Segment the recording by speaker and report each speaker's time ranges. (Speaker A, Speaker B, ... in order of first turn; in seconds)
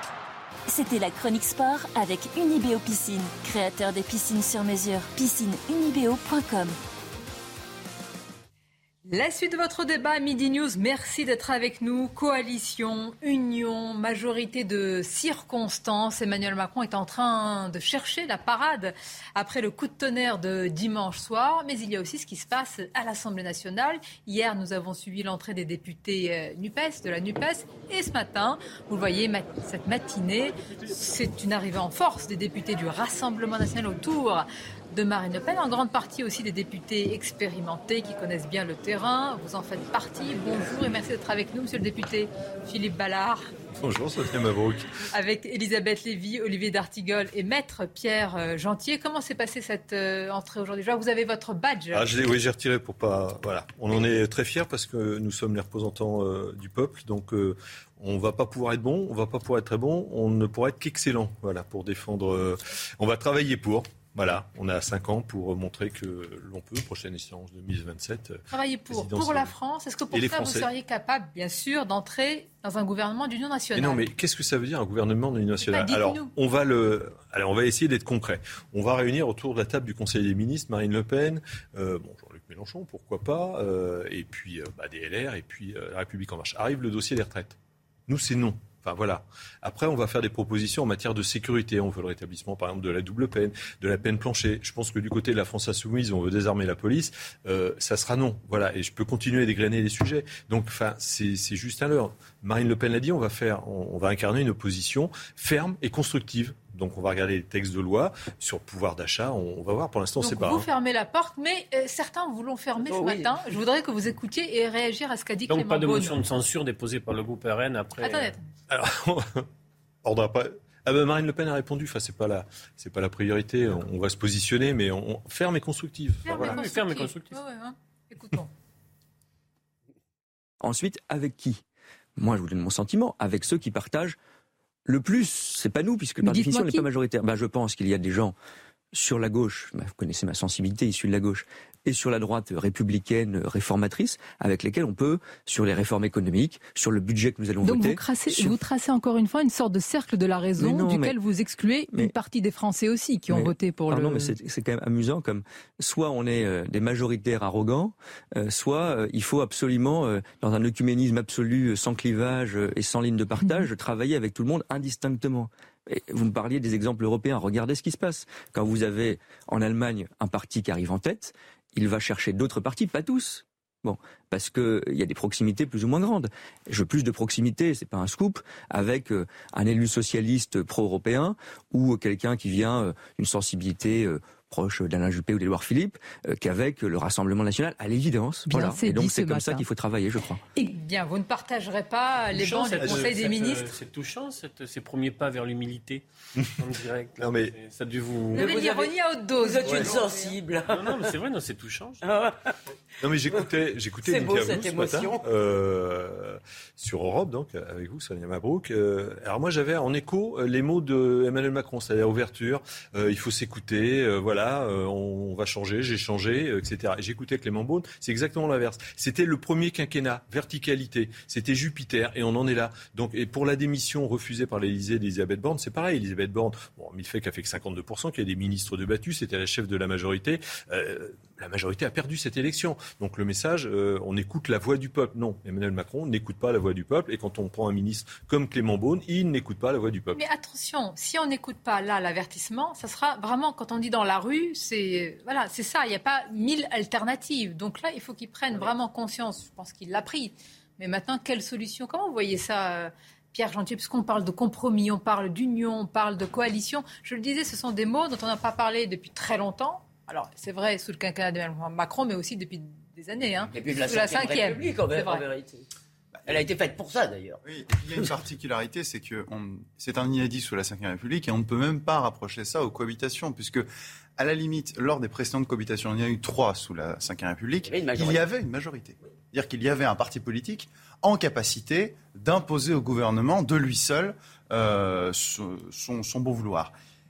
Speaker A: 0.7-3.5, 4.1-6.6
Speaker B: 9.1-43.5, 45.1-52.1, 68.5-74.0, 75.6-76.3, 110.2-116.2, 118.0-118.4, 126.2-128.5, 136.2-136.8, 147.6-154.3, 188.8-189.4, 190.5-193.7, 198.3-200.3, 240.1-265.2
Speaker C: 43.7-44.9, 51.9-69.5, 70.1-70.7, 73.7-110.7, 118.7-119.5, 120.0-126.5, 197.2-197.5, 203.0-240.2
Speaker D: 112.8-113.4, 198.3-201.0, 202.0-202.4, 204.0-205.2, 263.5-265.6, 266.2-267.4, 277.6-278.3
Speaker E: 115.5-118.3, 126.3-127.4, 192.3-196.0, 196.6-198.6, 199.7-200.0, 200.7-202.0
Speaker F: 130.6-131.6, 132.2-134.2, 134.8-138.3, 138.9-148.6, 150.6-151.1, 153.3-190.4
Speaker G: 267.4-286.7